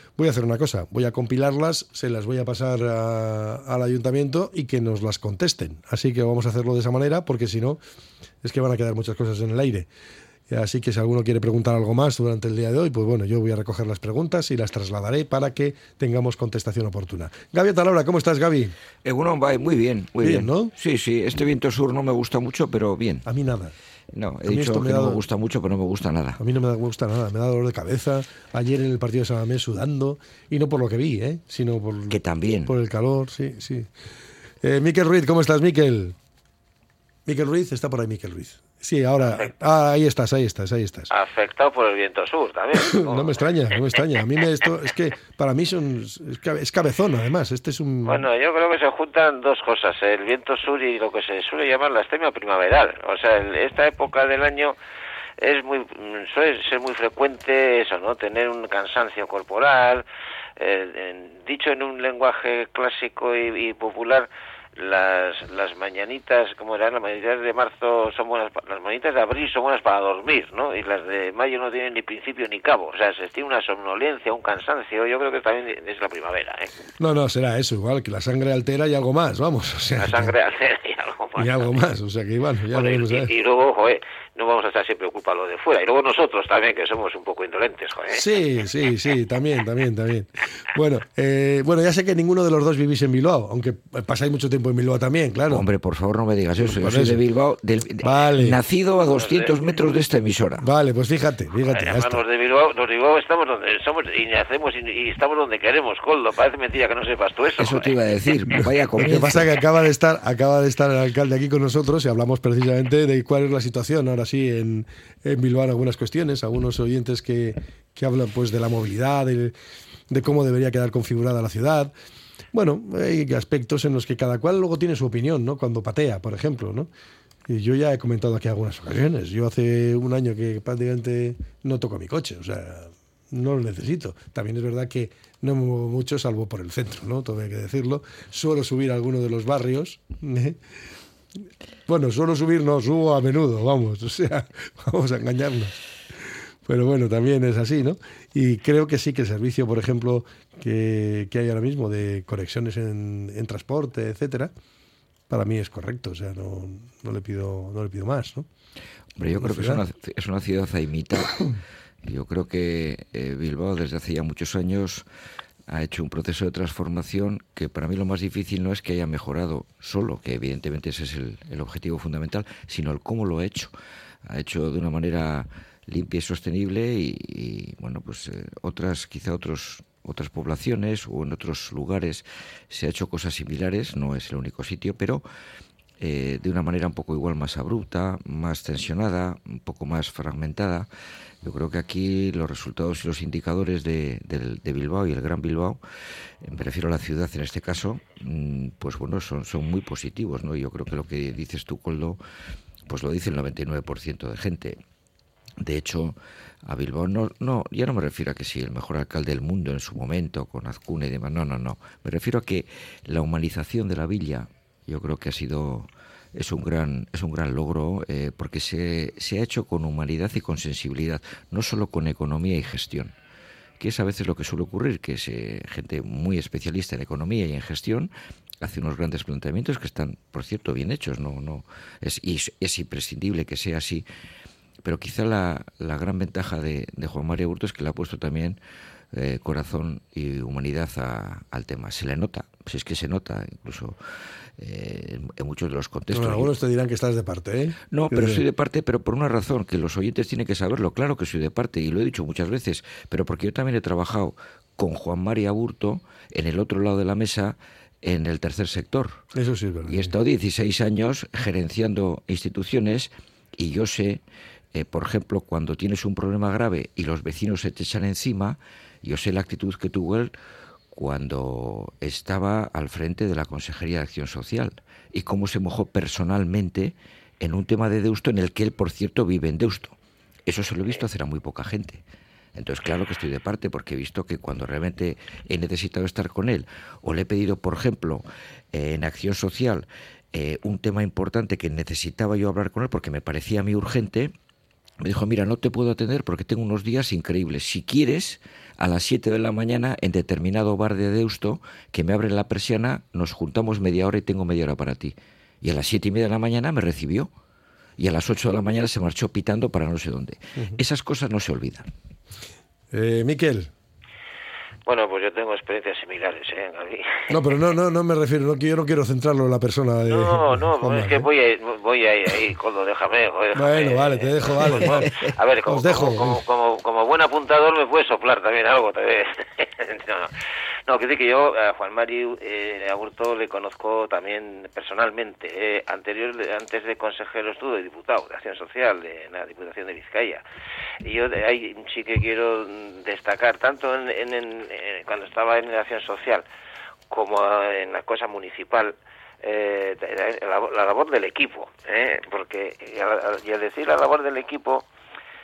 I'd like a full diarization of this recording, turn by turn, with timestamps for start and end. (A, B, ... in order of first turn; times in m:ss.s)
0:00.2-0:07.8 A
0:08.4-0:09.9 A
0:10.5-0:18.7 A
0:19.0-0:23.2 B
0:20.2-0:20.7 A
0:23.2-0:23.7 A
0:24.1-0:26.4 B
0:24.4-0:25.2 A
0:26.4-0:33.9 A
0:32.1-0:32.7 B
0:34.6-0:36.2 A
0:37.2-0:41.1 A
0:41.1-0:43.4 C
0:42.8-0:48.2 A
0:48.0-0:54.8 C
0:55.4-1:00.0 C
1:00.6-1:16.7 C
1:17.0-1:20.3 A
1:20.0-1:21.7 C
1:21.4-1:23.3 A
1:22.7-1:28.2 C
1:28.1-1:35.6 A
1:35.5-1:40.6 B
1:36.6-1:37.2 A
1:38.0-1:38.6 A
1:39.1-1:39.5 C
1:40.6-1:42.2 A
1:41.7-1:48.0 C
1:47.6-1:49.6 B
1:49.0-1:59.5 A
2:00.1-2:01.9 A
2:02.5-2:06.9 A
2:07.5-2:20.6 A
2:21.9-2:25.8 A
2:26.6-2:34.5 A
2:35.3-2:38.5 A
2:39.2-2:41.5 B
2:39.4-2:39.8 A
2:42.0-2:45.0 B
2:45.7-2:53.7 B
2:54.2-3:05.2 B
3:06.0-3:10.9 B
3:11.4-3:15.8 B
3:16.4-3:22.2 B
3:22.9-3:24.8 B
3:25.6-3:43.1 B
3:43.8-3:54.0 B
3:54.8-3:58.6 B
3:59.1-4:04.0 B
4:04.6-4:06.5 B
4:06.1-4:08.4 A
4:07.9-4:19.2 B
4:19.3-4:20.1 A
4:19.9-4:24.2 B
4:24.7-4:30.3 B
4:30.9-4:42.0 B
4:42.5-4:54.3 B
4:55.0-5:07.3 B
5:08.0-5:11.9 B
5:12.9-5:13.7 A
5:14.8-5:17.3 C
5:17.3-5:21.3 A
5:20.0-5:30.3 C
5:23.5-5:25.1 A
5:25.7-5:26.4 A
5:30.9-5:40.4 C
5:41.0-5:46.4 C
5:47.1-5:54.8 C